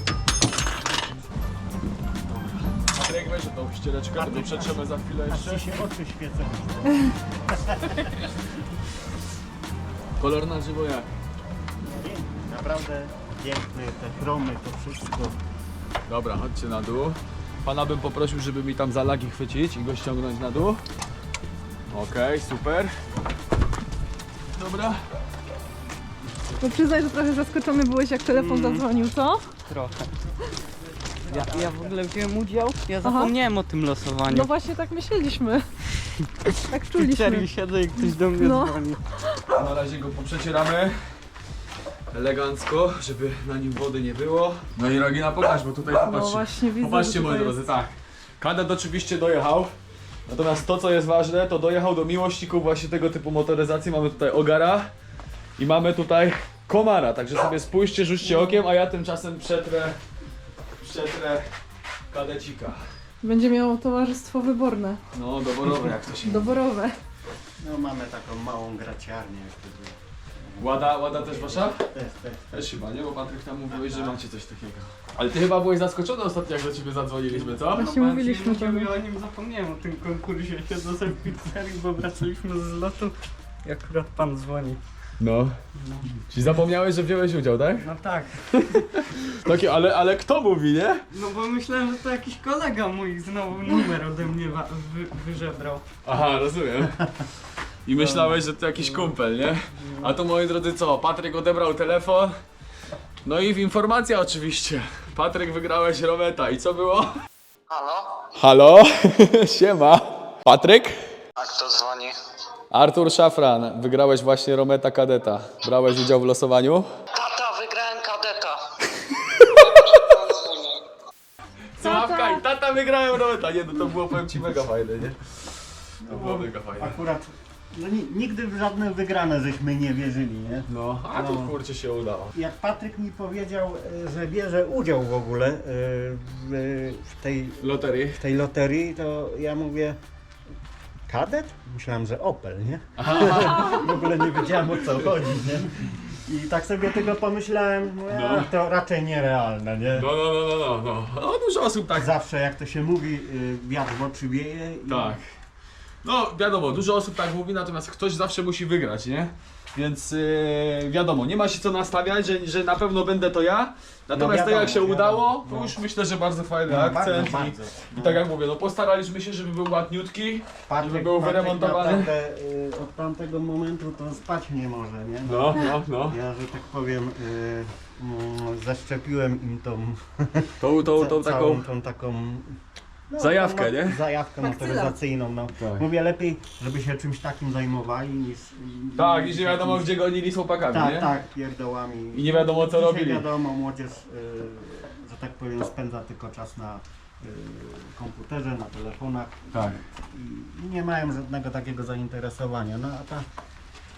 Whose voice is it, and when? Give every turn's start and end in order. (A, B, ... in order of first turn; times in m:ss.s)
0:02.3-0:05.7 A
0:04.2-0:08.1 B
0:10.2-0:11.1 A
0:11.8-0:15.4 B
0:16.1-0:20.8 A
0:21.9-0:23.0 A
0:24.5-0:25.0 A
0:26.6-0:29.5 C
0:28.3-0:28.8 D
0:29.6-0:30.1 D
0:31.3-0:31.9 B
0:31.3-0:34.5 D
0:33.0-0:33.3 C
0:34.3-0:35.7 C
0:36.7-0:37.5 C
0:36.9-0:39.0 D
0:38.4-0:38.8 C
0:39.5-0:41.1 A
0:42.1-0:49.7 A
0:46.0-0:47.6 C
0:50.3-0:54.9 A
0:55.6-1:00.0 A
1:00.8-1:01.5 A
1:02.1-1:02.8 A
1:03.2-1:05.0 C
1:05.1-1:06.6 A
1:06.2-1:07.0 C
1:07.6-1:12.7 B
1:10.6-1:11.9 A
1:12.5-1:17.9 A
1:13.7-1:14.2 B
1:17.4-1:24.8 D
1:17.8-1:18.9 C
1:25.2-1:25.6 A
1:25.8-1:26.2 D
1:26.3-1:27.9 A
1:27.8-1:28.8 D
1:28.8-1:31.0 A
1:31.1-1:35.8 D
1:36.0-1:37.1 A
1:37.9-1:42.4 A
1:38.0-1:39.2 D
1:39.8-1:40.1 D
1:43.2-1:47.2 A
1:47.7-1:48.3 E
1:48.4-1:51.1 A
1:51.4-1:52.1 E
1:52.7-1:56.9 A
1:57.1-1:58.6 E
1:59.1-2:00.0 A
1:59.5-2:00.8 E
2:01.8-2:07.0 A
2:01.8-2:02.4 C
2:06.0-2:11.6 B
2:10.7-2:12.4 A
2:12.3-2:20.0 B
2:17.6-2:18.2 A
2:21.1-2:30.1 B
2:23.0-2:23.9 A
2:28.1-2:28.5 A
2:30.0-2:32.1 A
2:32.0-2:35.2 B
2:34.9-2:35.2 A
2:36.0-2:52.1 A
2:44.1-2:45.8 B
2:46.7-2:48.2 B
2:50.7-3:10.0 B
2:55.3-2:56.2 A
3:00.6-3:01.6 A
3:03.2-3:04.0 A
3:04.5-3:04.9 C
3:05.6-3:05.8 A
3:09.0-3:11.1 A
3:10.7-3:23.3 B
3:12.1-3:13.3 A
3:19.5-3:19.8 A